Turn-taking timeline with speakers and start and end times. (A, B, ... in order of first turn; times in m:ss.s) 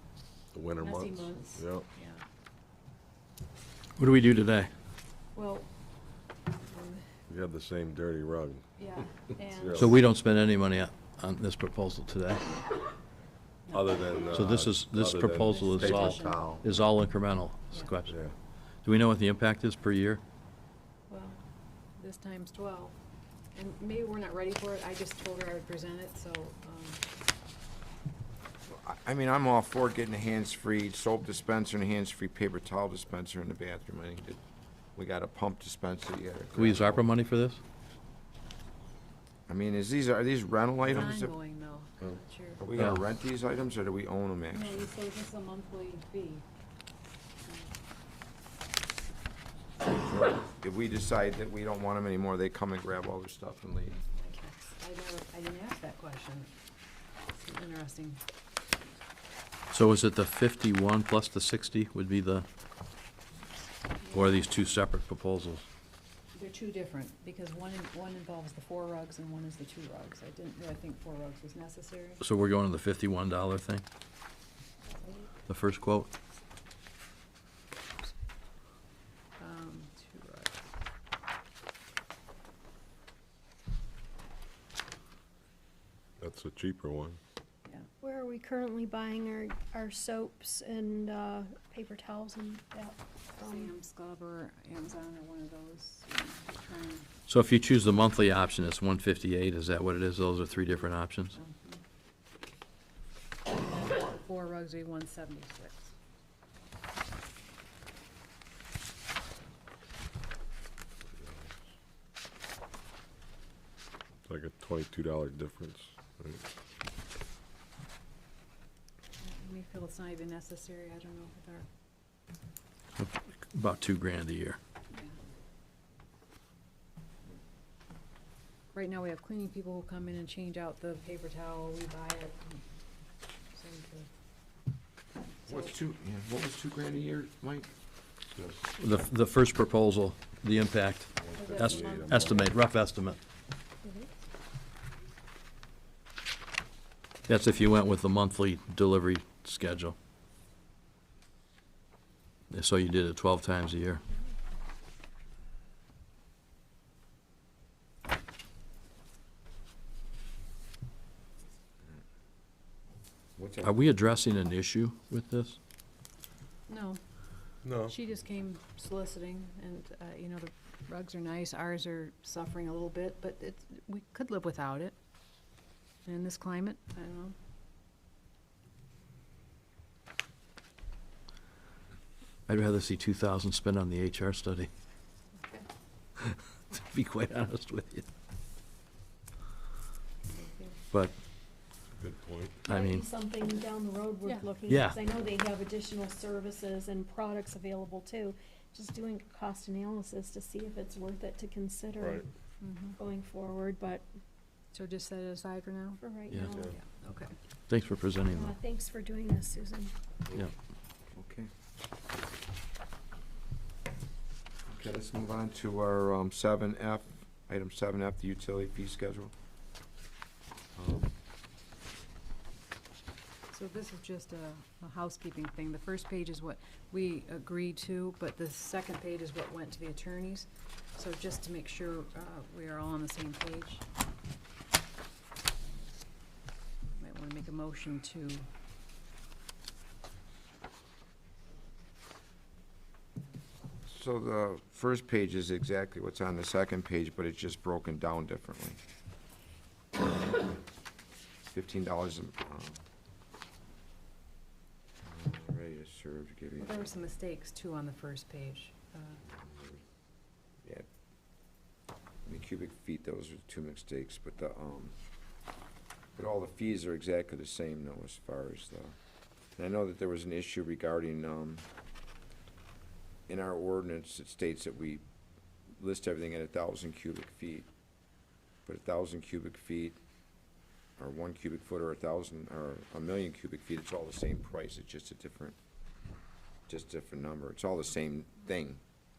0:00.5-0:01.8 A
0:00.8-0:02.2 B
0:04.0-0:04.7 C
0:05.3-0:05.7 B
0:06.7-0:07.0 B
0:07.3-0:08.6 A
0:08.8-0:10.0 B
0:09.4-0:10.0 A
0:09.7-0:12.4 C
0:13.7-0:14.4 B
0:13.7-0:16.6 A
0:14.3-0:18.2 C
0:15.4-0:16.6 B
0:18.0-0:18.3 A
0:18.8-0:20.2 C
0:21.1-0:21.4 B
0:22.0-0:23.0 B
0:23.5-0:27.0 B
0:28.7-0:34.4 D
0:35.0-0:37.0 D
0:36.5-0:37.6 C
0:39.5-0:41.3 D
0:40.8-0:42.6 B
0:42.0-0:44.8 D
0:44.5-0:46.4 B
0:49.9-0:54.0 D
0:54.0-0:56.5 B
0:57.4-0:58.2 B
0:59.7-1:02.4 C
1:04.0-1:04.4 B
1:04.1-1:05.6 C
1:06.3-1:12.2 B
1:12.2-1:13.8 C
1:15.0-1:15.2 B
1:15.5-1:16.1 C
1:19.4-1:20.6 B
1:26.2-1:27.2 A
1:28.0-1:33.7 E
1:33.4-1:37.1 B
1:37.3-1:41.3 C
1:41.3-1:41.8 B
1:43.6-1:45.9 B
1:54.3-1:56.4 A
1:59.2-2:01.7 B
2:03.0-2:04.6 C
2:08.7-2:12.6 B
2:13.5-2:14.1 B
2:15.5-2:17.7 D
2:18.3-2:18.6 A
2:18.8-2:23.2 C
2:21.2-2:22.5 A
2:21.4-2:22.4 B
2:27.3-2:29.9 C
2:32.5-2:34.0 C
2:43.4-2:43.8 D
2:43.6-2:45.6 C
2:46.7-2:47.0 B
2:47.6-2:47.9 A
2:47.8-2:55.0 B
2:56.0-2:57.4 B
3:02.5-3:04.7 C
3:05.3-3:05.6 B
3:06.2-3:08.0 C
3:10.3-3:10.8 B
3:11.9-3:12.7 A
3:12.7-3:13.0 C
3:12.7-3:22.2 E
3:14.7-3:15.0 C
3:22.0-3:22.2 A
3:22.6-3:23.0 B
3:23.0-3:24.0 E
3:24.7-3:26.0 B
3:26.0-3:26.8 E
3:26.5-3:26.7 A
3:26.6-3:27.3 B
3:27.7-3:28.5 C
3:28.2-3:29.9 E
3:31.1-3:31.5 D
3:34.7-3:39.3 D
3:40.8-3:41.1 D
3:43.5-3:53.8 B
3:57.0-3:58.5 B
4:03.8-4:08.8 D
4:11.5-4:12.8 D
4:15.0-4:16.9 D
4:16.6-4:19.2 B
4:19.3-4:19.8 D
4:22.2-4:24.9 D
4:26.2-4:28.9 D
4:29.6-4:31.6 D
4:33.3-4:35.0 D
4:35.8-4:37.7 D
4:38.6-4:40.0 D
4:41.0-4:45.6 D
4:46.7-4:48.8 D